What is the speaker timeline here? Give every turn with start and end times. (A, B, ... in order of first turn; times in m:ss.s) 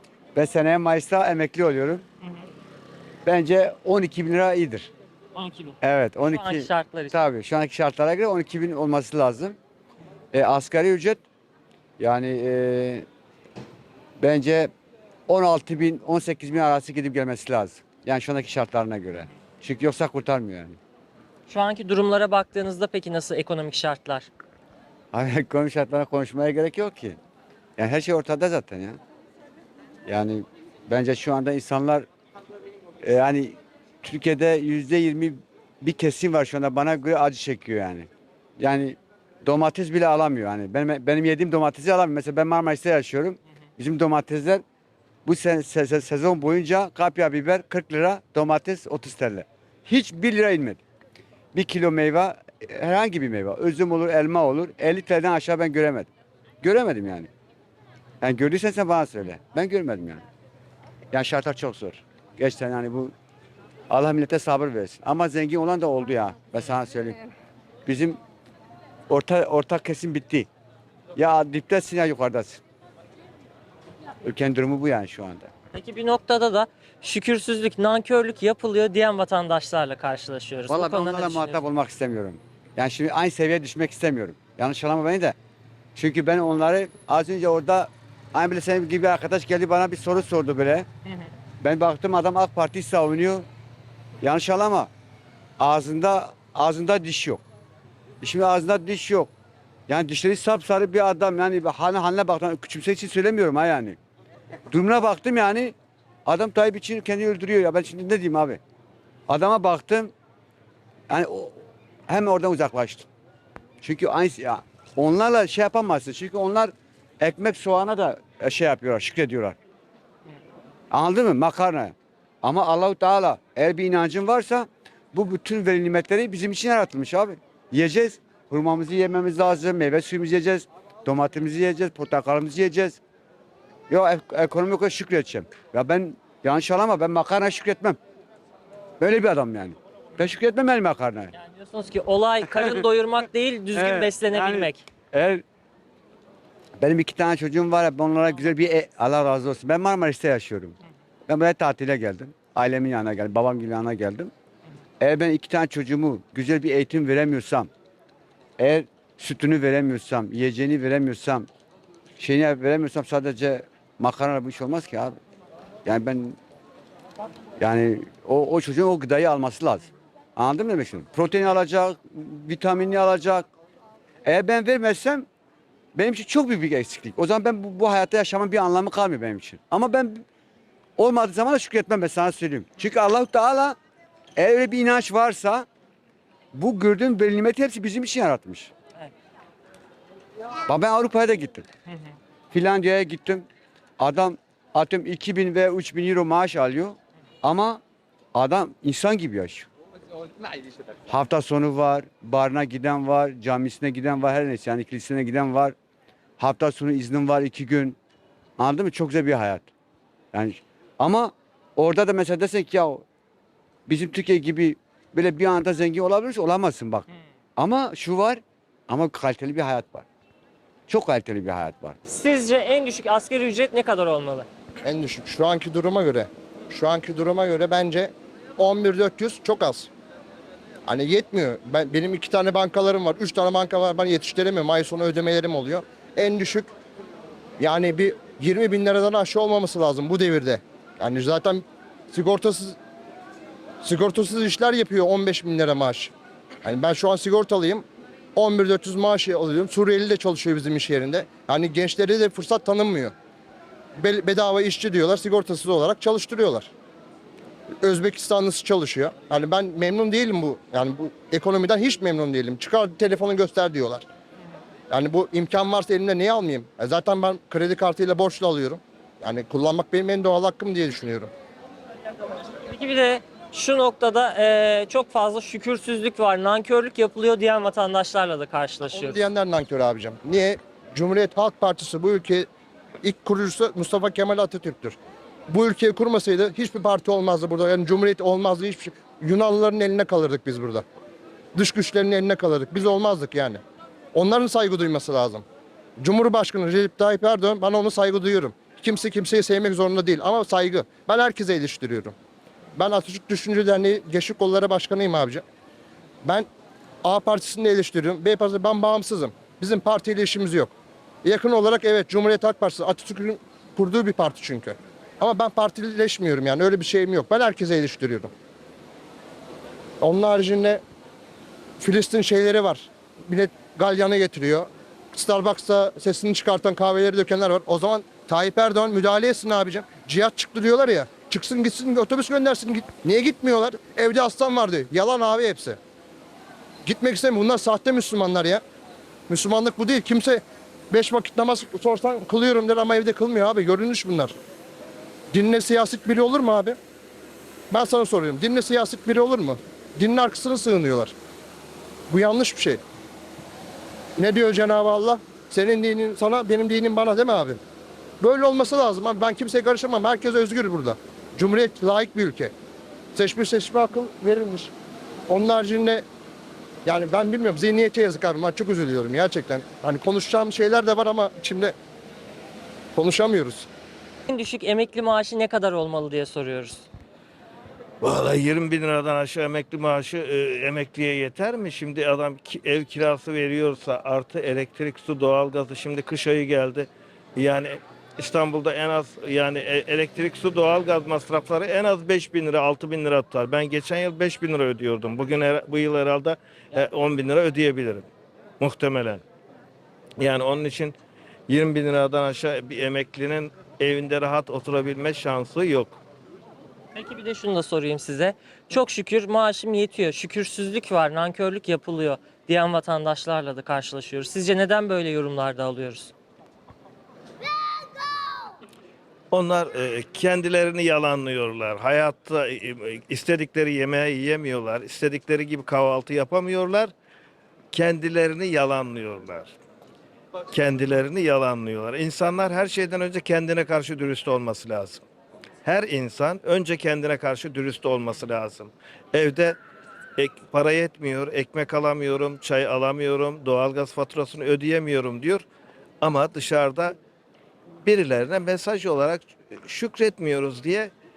0:00.4-0:02.0 A
0:03.2-0:04.9 A
0:05.4-0:07.2 B
0:05.8-0:09.6 A
0:10.3-0:11.2 A
0:12.0-0:13.1 A
0:14.2-0:14.7 A
0:15.3-0:20.8 A
0:21.5-0:24.3 B
0:25.1-0:27.2 A
0:27.8-0:29.0 A
0:30.1-0:32.1 A
0:33.0-0:38.1 A
0:38.6-0:44.6 A
0:45.2-0:50.8 A
0:51.5-0:56.1 A
0:56.6-0:57.3 A
0:58.2-1:00.2 A
1:01.1-1:03.1 A
1:03.9-1:07.2 A
1:07.9-1:08.2 A
1:09.1-1:10.5 A
1:11.2-1:12.6 A
1:14.2-1:15.5 A
1:15.7-1:21.6 B
1:20.7-1:25.4 A
1:26.0-1:30.9 A
1:31.6-1:33.5 A
1:34.2-1:34.9 A
1:35.6-1:37.4 A
1:38.2-1:39.3 A
1:39.9-1:44.0 A
1:44.7-1:48.6 A
1:49.3-1:50.1 A
1:51.1-1:53.1 A
1:53.8-1:59.6 A
2:00.9-2:13.0 A
2:13.9-2:18.0 A
2:19.0-2:21.3 A
2:21.4-2:24.9 B
2:22.4-2:22.8 A
2:23.7-2:25.4 A
2:26.8-2:34.3 A
2:35.0-2:37.7 A
2:38.6-2:41.5 A
2:42.2-2:45.2 A
2:45.8-2:46.4 A
2:47.6-2:53.5 A
2:54.2-2:55.3 A
2:56.0-3:00.2 A
3:01.0-3:03.8 A
3:04.4-3:05.7 A
3:06.5-3:08.7 A
3:10.7-3:11.7 A
3:12.5-3:13.5 A
3:14.0-3:17.8 A
3:18.3-3:19.7 A
3:21.1-3:25.8 A
3:26.4-3:28.0 A
3:28.6-3:29.7 A
3:30.3-3:33.0 A
3:33.9-3:40.1 A
3:40.9-3:42.0 A
3:42.1-3:44.5 B
3:44.8-3:49.9 C
3:50.9-3:56.7 C
3:57.6-4:02.8 C
4:03.8-4:06.1 C
4:06.6-4:07.8 C
4:08.4-4:13.1 C
4:14.0-4:16.7 C
4:17.8-4:24.1 C
4:24.9-4:31.3 C
4:32.7-4:39.2 B
4:38.8-4:42.5 C
4:43.0-4:45.0 C
4:45.5-4:50.8 C
4:51.6-4:53.6 C
4:54.1-4:55.4 C
4:56.0-5:02.2 C
5:02.8-5:05.4 C
5:07.0-5:18.3 C
5:20.0-5:20.8 C
5:21.8-5:35.8 C
5:36.8-5:38.6 C
5:39.3-5:44.4 C
5:45.3-5:46.8 C
5:47.7-5:51.1 C
5:52.1-5:52.8 C
5:54.2-5:57.6 C
5:58.2-6:02.5 C
6:03.1-6:04.7 C
6:05.3-6:06.0 C
6:06.9-6:11.8 C
6:13.0-6:13.7 C
6:14.3-6:16.9 B
6:18.0-6:38.1 D
6:38.6-6:39.2 D
6:40.2-6:41.0 D
6:41.5-6:46.0 D
6:47.0-6:56.1 B
6:59.3-7:06.9 D
7:07.7-7:09.6 D
7:10.5-7:15.0 D
7:15.6-7:19.6 D
7:20.2-7:25.4 D
7:26.0-7:27.0 D
7:27.8-7:30.9 D